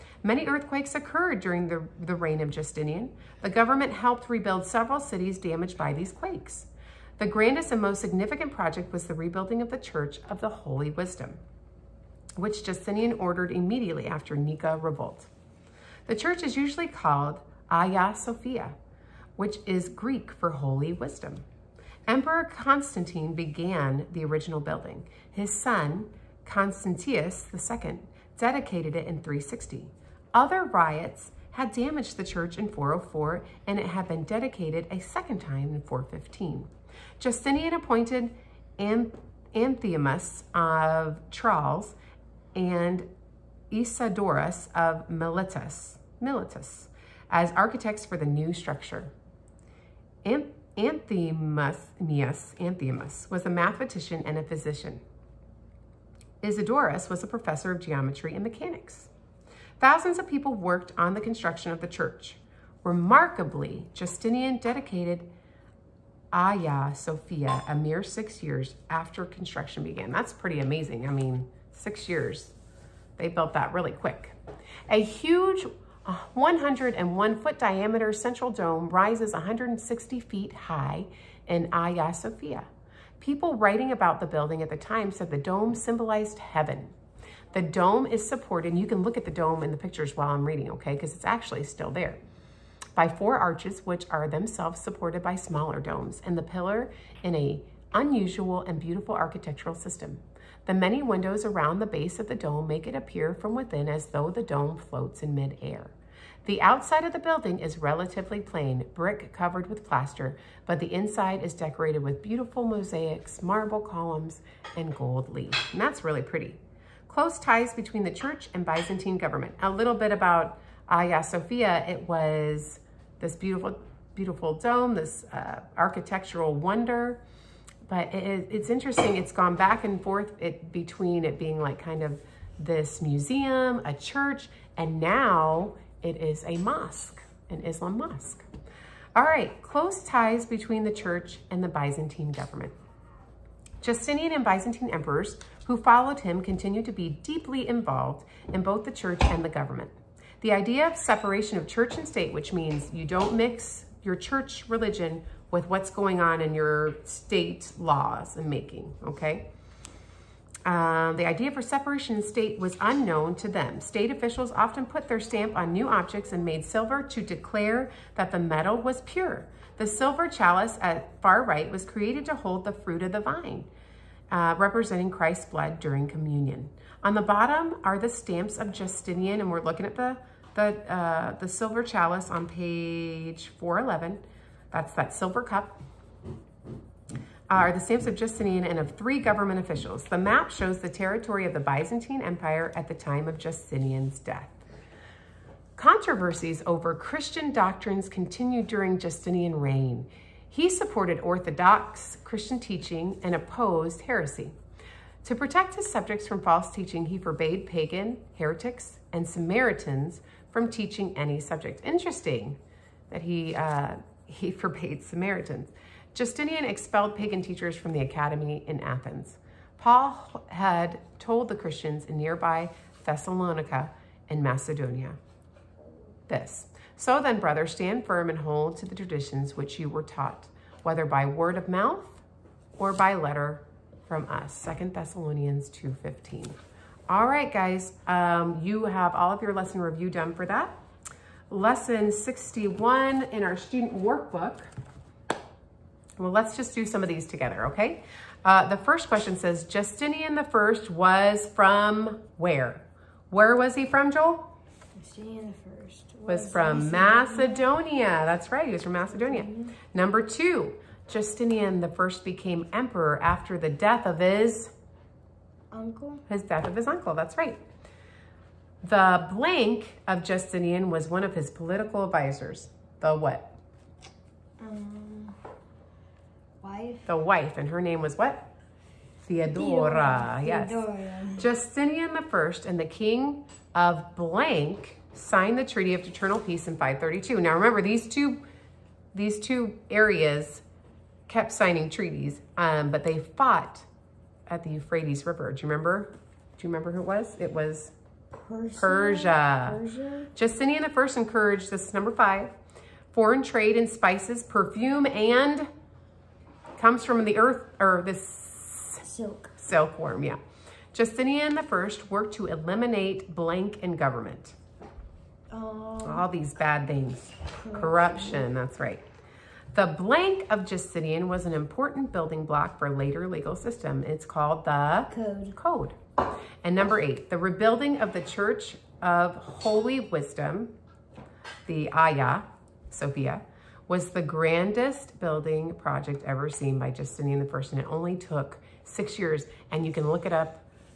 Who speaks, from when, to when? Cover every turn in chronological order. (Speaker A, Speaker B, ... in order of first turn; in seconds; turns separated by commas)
Speaker A: 0.2-11.4, Speaker A: 12.4-15.3, Speaker A: 16.1-18.8, Speaker A: 19.4-21.4, Speaker A: 22.1-42.0, Speaker A: 42.5-43.1, Speaker A: 43.7-49.1, Speaker A: 50.2-55.0, Speaker A: 56.4-59.1, Speaker A: 59.8-65.3, Speaker A: 66.3-72.5, Speaker A: 73.2-74.3, Speaker A: 74.9-82.7, Speaker A: 83.2-86.9, Speaker A: 87.5-92.2, Speaker A: 93.0-105.9, Speaker A: 106.4-127.2, Speaker A: 127.9-138.4, Speaker A: 139.2-142.8, Speaker A: 143.8-159.5, Speaker A: 160.6-173.7, Speaker A: 174.3-185.8, Speaker A: 187.5-194.6, Speaker A: 195.8-204.5, Speaker A: 205.2-212.6, Speaker A: 213.1-225.2, Speaker A: 226.3-232.2, Speaker A: 232.8-236.6, Speaker A: 237.1-240.7, Speaker A: 241.5-244.7, Speaker A: 246.2-254.5, Speaker B: 255.0-257.7, Speaker A: 256.2-264.7, Speaker B: 259.1-259.7, Speaker B: 265.7-266.2, Speaker A: 266.3-267.6, Speaker A: 268.8-273.6, Speaker B: 274.6-275.4, Speaker B: 276.6-277.1, Speaker A: 277.1-278.5, Speaker A: 279.2-288.4, Speaker B: 279.5-281.5, Speaker A: 289.1-290.6, Speaker A: 291.3-293.9, Speaker A: 294.5-297.9, Speaker B: 298.3-300.3, Speaker A: 298.8-299.8, Speaker A: 300.3-302.5, Speaker A: 303.1-305.7, Speaker A: 306.8-309.0, Speaker B: 309.0-309.5, Speaker A: 309.6-310.4, Speaker A: 310.9-314.6, Speaker B: 315.5-316.3, Speaker A: 316.0-319.0, Speaker B: 317.5-318.4, Speaker A: 319.7-326.0, Speaker B: 325.1-325.6, Speaker A: 326.6-330.7, Speaker A: 331.7-340.6